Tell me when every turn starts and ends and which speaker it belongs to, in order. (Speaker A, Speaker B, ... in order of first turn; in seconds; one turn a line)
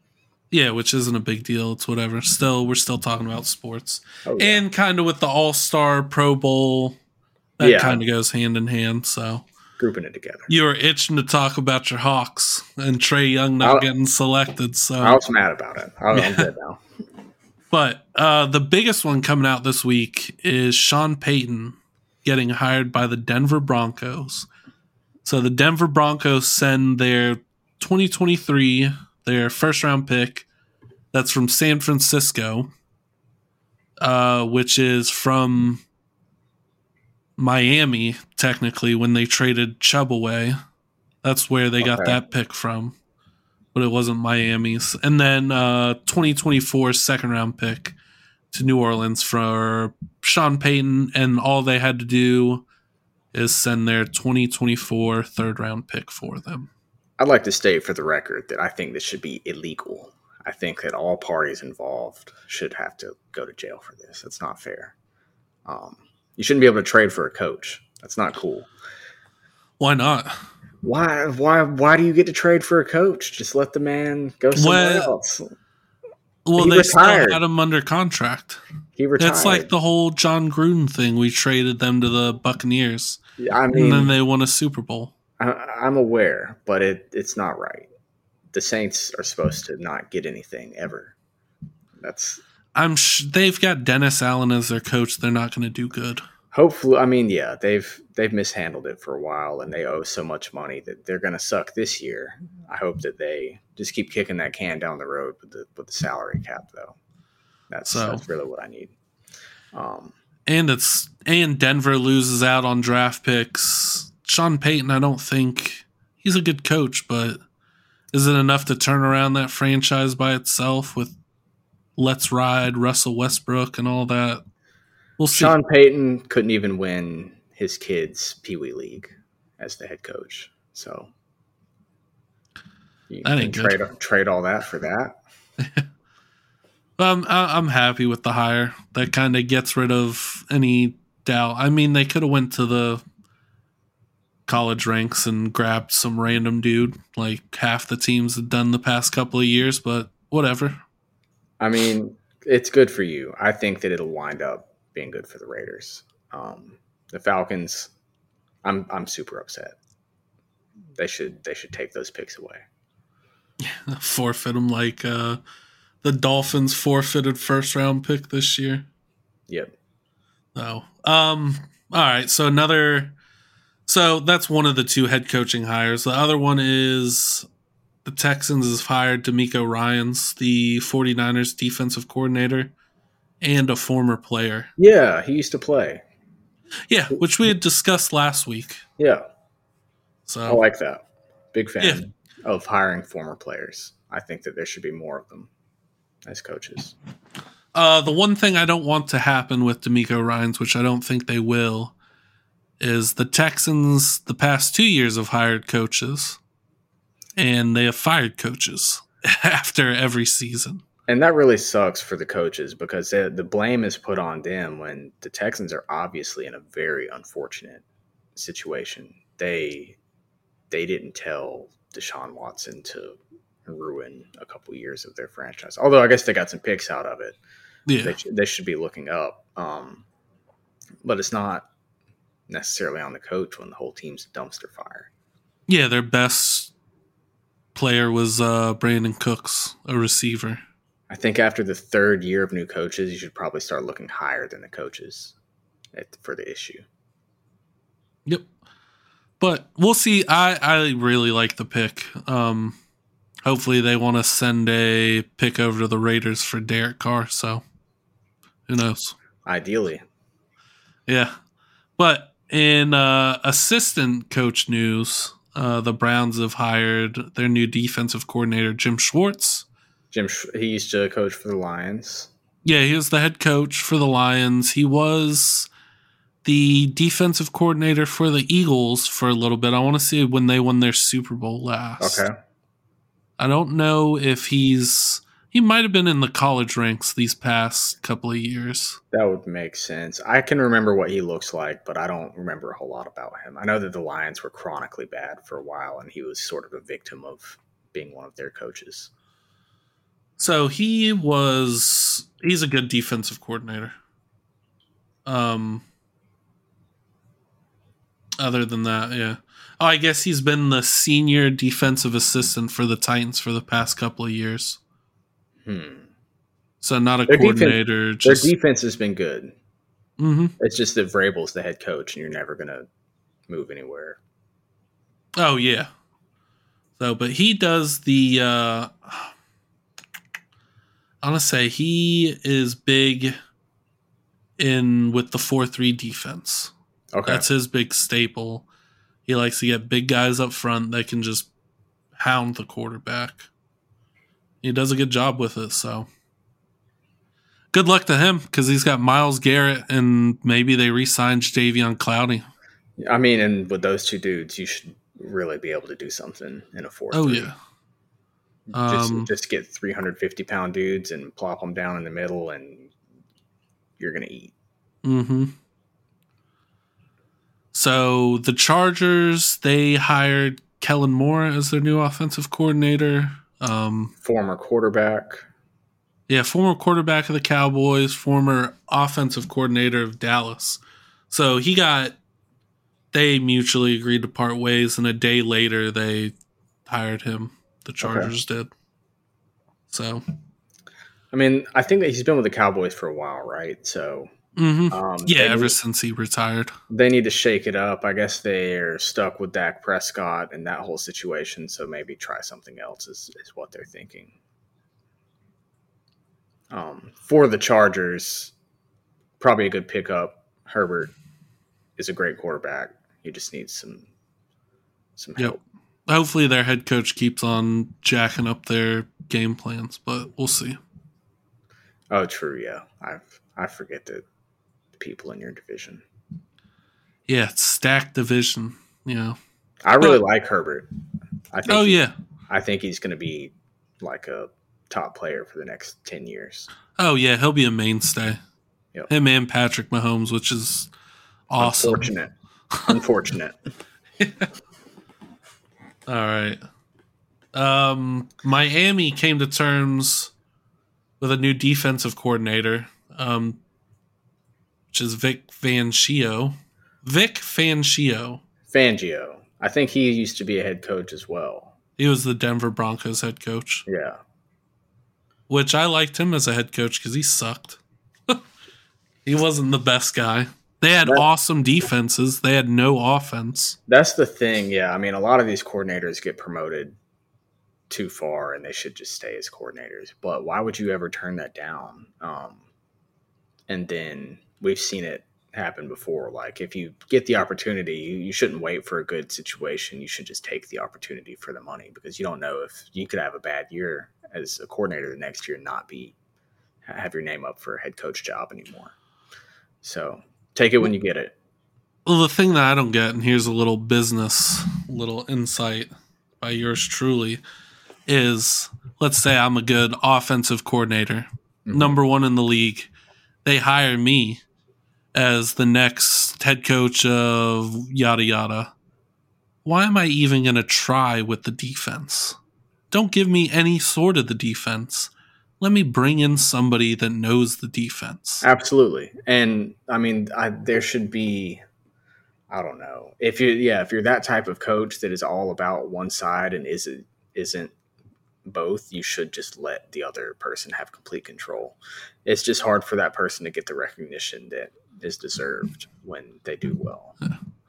Speaker A: 0.5-7.0
Speaker B: 4.2-4.6
Speaker A: 7.6-9.4
Speaker B: 7.6-8.0
Speaker B: 9.8-10.5
Speaker A: 10.5-15.2
Speaker B: 13.6-13.9
Speaker B: 15.0-16.8
Speaker A: 16.1-16.5
Speaker A: 17.7-24.5
Speaker A: 25.2-30.5
Speaker A: 31.1-32.7
Speaker A: 34.0-35.8
Speaker A: 37.4-40.6
Speaker A: 41.2-43.0
Speaker B: 41.8-42.2
Speaker A: 43.7-48.0
Speaker A: 48.5-52.6
Speaker A: 53.3-56.7
Speaker B: 57.2-64.9
Speaker B: 65.7-68.7
Speaker A: 69.8-70.4
Speaker B: 70.8-75.5
Speaker A: 74.5-75.1
Speaker A: 76.5-78.6
Speaker B: 76.6-77.4
Speaker B: 79.0-79.7
Speaker A: 79.2-83.2
Speaker B: 83.4-84.1
Speaker A: 83.7-85.1
Speaker B: 85.4-87.9
Speaker B: 88.5-91.1
Speaker B: 92.0-92.4
Speaker A: 92.7-96.2
Speaker B: 96.5-107.0
Speaker B: 107.7-108.9
Speaker A: 107.9-108.2
Speaker B: 109.7-110.1
Speaker A: 110.5-117.4
Speaker A: 118.1-121.2
Speaker A: 122.0-124.4
Speaker A: 125.2-125.5
Speaker B: 125.3-131.1
Speaker B: 133.1-135.2
Speaker A: 133.2-133.8
Speaker A: 135.6-135.8
Speaker A: 137.0-143.0
Speaker A: 144.5-150.8
Speaker B: 151.6-157.9
Speaker B: 158.6-159.8
Speaker B: 160.9-162.7
Speaker A: 163.6-165.4
Speaker A: 166.0-168.9
Speaker A: 170.5-173.1
Speaker A: 173.9-177.4
Speaker A: 178.0-182.7
Speaker A: 183.4-184.7
Speaker B: 184.8-186.0
Speaker A: 186.9-188.8
Speaker B: 189.0-189.2
Speaker A: 190.3-190.6
Speaker B: 190.4-191.0
Speaker B: 191.5-195.5
Speaker B: 196.2-196.9
Speaker A: 197.7-201.9
Speaker A: 202.8-206.4
Speaker A: 207.4-210.8
Speaker B: 211.1-217.8
Speaker B: 218.3-220.0
Speaker B: 220.7-227.4
Speaker A: 227.9-228.2
Speaker B: 228.0-230.0
Speaker B: 231.0-231.7
Speaker B: 232.5-235.1
Speaker A: 235.7-236.7
Speaker A: 237.7-240.6
Speaker B: 241.1-245.3
Speaker B: 245.9-246.8
Speaker A: 249.4-252.8
Speaker A: 253.4-257.6
Speaker A: 258.7-259.1
Speaker B: 259.4-260.0
Speaker A: 261.1-261.4
Speaker A: 262.0-269.6
Speaker B: 270.1-272.3
Speaker A: 272.6-275.7
Speaker A: 276.4-282.2
Speaker B: 282.0-282.3
Speaker A: 283.4-289.0
Speaker B: 289.1-299.1
Speaker A: 300.4-303.9
Speaker A: 305.2-305.8
Speaker A: 308.4-314.8
Speaker B: 315.6-316.1
Speaker A: 316.8-318.5
Speaker B: 317.3-319.5
Speaker A: 320.2-320.5
Speaker B: 320.6-322.9
Speaker B: 323.5-324.2
Speaker A: 325.4-325.9
Speaker A: 327.0-329.3
Speaker A: 331.2-333.4
Speaker A: 334.6-336.7
Speaker B: 337.1-337.4
Speaker A: 337.2-338.6
Speaker A: 339.2-341.5
Speaker A: 342.1-343.5
Speaker A: 344.6-346.1
Speaker A: 347.7-352.5
Speaker B: 353.0-357.5
Speaker A: 357.1-357.6
Speaker B: 358.7-362.9
Speaker A: 358.7-359.3
Speaker B: 364.0-364.5
Speaker A: 365.0-365.6
Speaker A: 367.7-374.1
Speaker B: 374.2-375.5
Speaker A: 376.3-382.2
Speaker A: 383.1-386.3
Speaker A: 386.9-388.7
Speaker B: 388.0-388.3
Speaker A: 389.9-390.2
Speaker B: 391.3-394.3
Speaker A: 394.6-396.7
Speaker B: 394.9-395.8
Speaker B: 396.9-404.3
Speaker B: 406.7-408.5
Speaker B: 409.4-411.1
Speaker B: 412.0-414.1
Speaker B: 415.2-415.6
Speaker A: 415.4-420.8
Speaker B: 422.1-424.2
Speaker B: 425.0-426.0
Speaker A: 427.3-429.4
Speaker B: 429.8-430.9
Speaker B: 431.5-436.7
Speaker A: 431.7-432.1
Speaker A: 436.9-438.4
Speaker A: 439.1-440.9
Speaker A: 441.5-442.1
Speaker B: 441.6-442.3
Speaker B: 442.9-443.6
Speaker A: 444.2-444.5
Speaker A: 446.1-446.6
Speaker A: 447.5-450.3
Speaker A: 451.2-453.6
Speaker A: 454.9-458.4
Speaker B: 458.7-461.7
Speaker A: 462.0-463.9
Speaker B: 463.9-464.2
Speaker A: 465.5-468.4
Speaker A: 469.2-473.8
Speaker B: 473.9-476.9
Speaker B: 477.9-482.6
Speaker B: 483.7-496.1
Speaker B: 496.8-498.9
Speaker B: 499.8-501.3
Speaker A: 502.1-507.4
Speaker A: 508.1-512.9
Speaker B: 511.6-511.9
Speaker A: 513.4-514.4
Speaker A: 515.1-518.7
Speaker A: 519.6-522.4
Speaker A: 522.9-528.5
Speaker B: 528.4-531.6
Speaker B: 532.5-537.7
Speaker B: 538.4-547.1